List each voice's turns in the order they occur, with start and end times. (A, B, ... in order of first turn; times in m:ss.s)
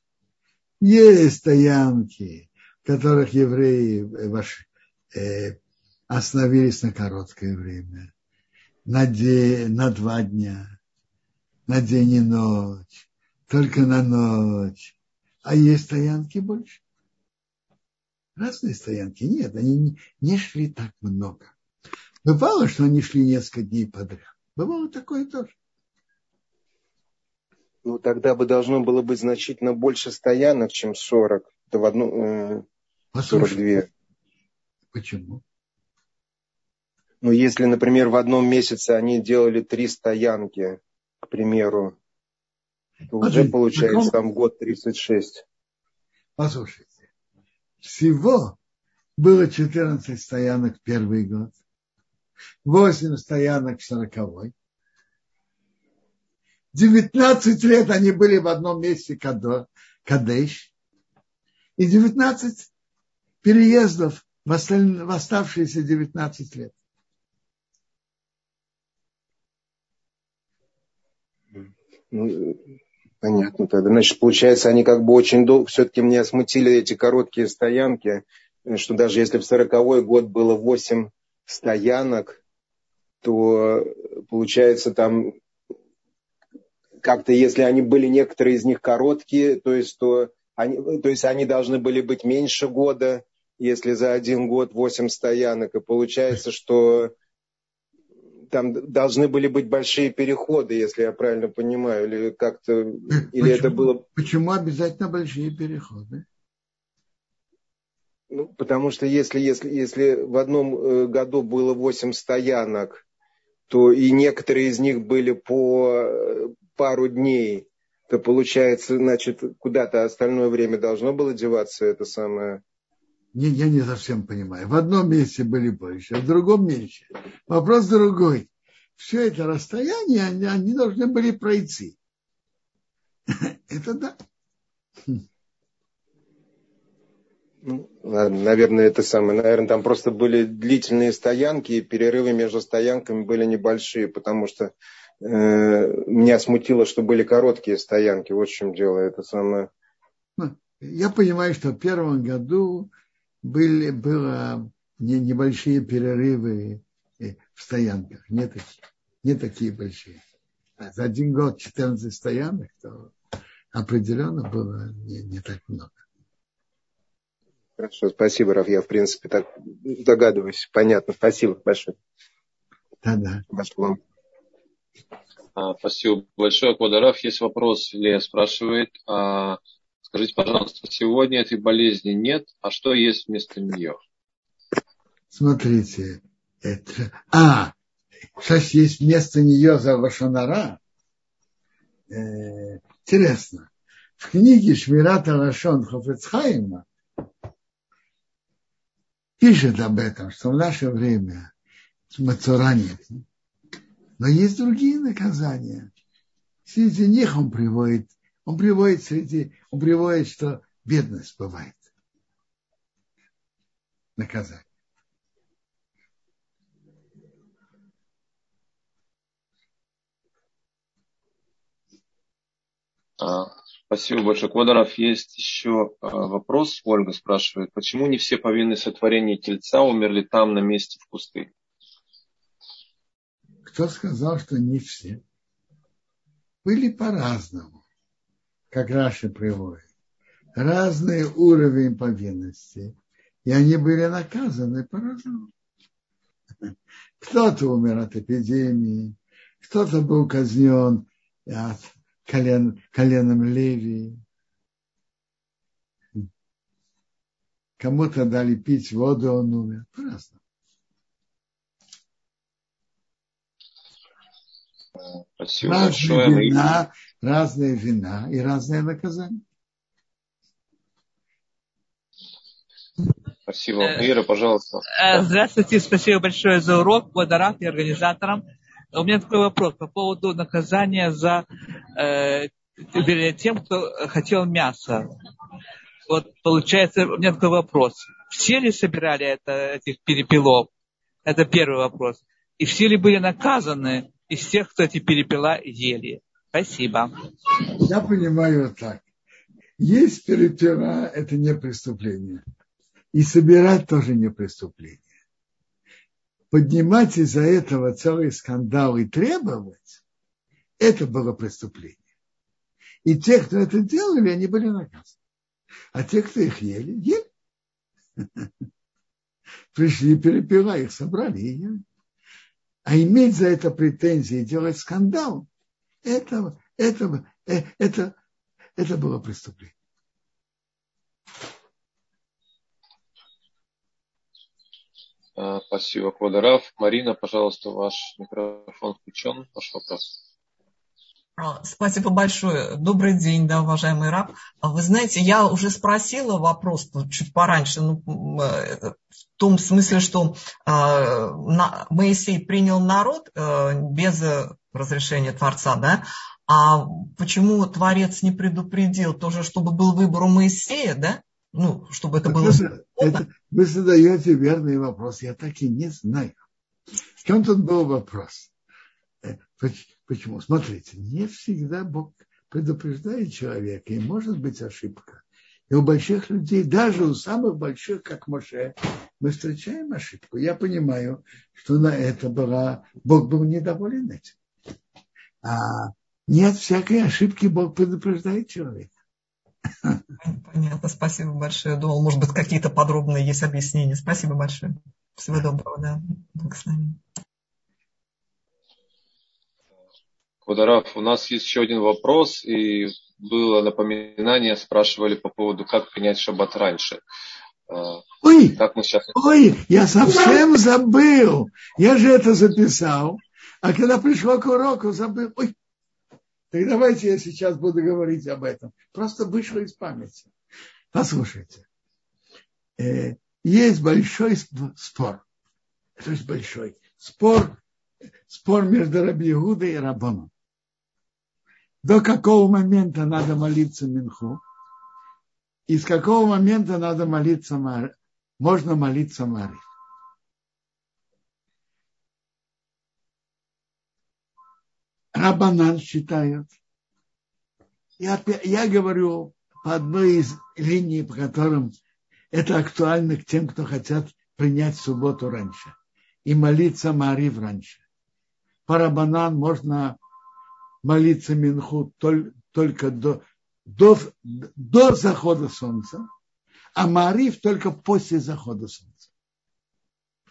0:00.8-0:05.6 A
0:06.1-0:08.1 A
0:08.9-0:10.7 A
0:11.7-0:14.9 A
0:15.4-0:16.8 A
0:18.4-0:21.5 A
0:22.2-0:25.6 A
0:27.8-0:32.7 B
0:33.1-0:33.8 A
0:33.3-0:33.9 B
0:34.9-0:35.4 A
0:37.2-0:42.0 B
0:43.1-0:45.4 B
0:43.2-0:44.1 A
0:46.4-0:46.9 A
0:47.8-0:48.6 A
0:49.2-0:51.6 A
0:52.6-0:54.5 A
0:56.7-1:00.7 A
1:01.8-1:02.7 A
1:03.4-1:06.7 A
1:11.6-1:12.6 B
1:13.2-1:22.4 B
1:23.2-1:25.4 B
1:27.0-1:37.1 B
1:38.5-1:44.0 B
1:43.1-1:46.2 A
1:48.3-1:53.0 B
1:53.7-2:02.6 B
2:03.4-2:12.0 A
2:13.3-2:14.2 A
2:17.6-2:29.7 B
2:30.4-2:32.9 A
2:33.4-2:40.2 A
2:40.8-2:43.1 A
2:43.7-2:46.0 A
2:47.8-2:52.0 B
2:53.0-2:53.4 A
2:53.5-2:54.0 B
2:55.6-3:04.0 C
3:05.3-3:07.8 A
3:08.4-3:10.8 A
3:12.1-3:16.9 A
3:19.4-3:21.5 A
3:22.1-3:23.2 A
3:24.2-3:25.9 A
3:26.7-3:31.9 A
3:34.2-3:34.6 A
3:43.2-3:51.5 C
3:53.7-3:55.2 A
3:56.6-3:57.8 A
3:58.7-3:59.8 A
4:00.6-4:02.9 A
4:03.4-4:05.5 A
4:07.2-4:14.2 A
4:17.8-4:20.4 A
4:25.4-4:26.8 C
4:25.6-4:29.4 A
4:33.5-4:34.8 C
4:34.9-4:38.4 D
4:38.9-4:41.4 D
4:42.0-4:45.1 D
4:46.1-4:50.7 D
4:51.2-4:57.1 D
4:57.8-4:59.0 A
4:59.8-5:02.4 A
5:03.1-5:05.0 A
5:06.5-5:10.0 A
5:10.8-5:12.0 A
5:13.0-5:15.1 A
5:15.9-5:17.2 A
5:18.2-5:18.5 A
5:19.7-5:21.8 A
5:22.9-5:25.5 A
5:26.0-5:28.2 A
5:28.8-5:29.7 A
5:35.4-5:40.0 C
5:41.4-6:03.2 E
6:02.3-6:06.4 A
6:07.2-6:08.5 A
6:09.2-6:24.4 A
6:25.4-6:28.9 A
6:30.2-6:37.0 E
6:40.4-6:47.0 C
6:47.7-6:49.2 C
6:48.2-6:48.6 A
6:49.1-6:55.6 A
6:56.5-7:00.3 A
7:00.9-7:01.6 A
7:02.8-7:05.2 A
7:06.0-7:07.6 A
7:08.3-7:10.3 A
7:11.8-7:14.4 A
7:15.7-7:19.6 A
7:25.2-7:26.5 A
7:28.0-7:31.8 A
7:32.3-7:35.8 A
7:36.3-7:37.8 A
7:38.7-7:40.0 A
7:40.8-7:46.1 A
7:46.8-7:49.1 A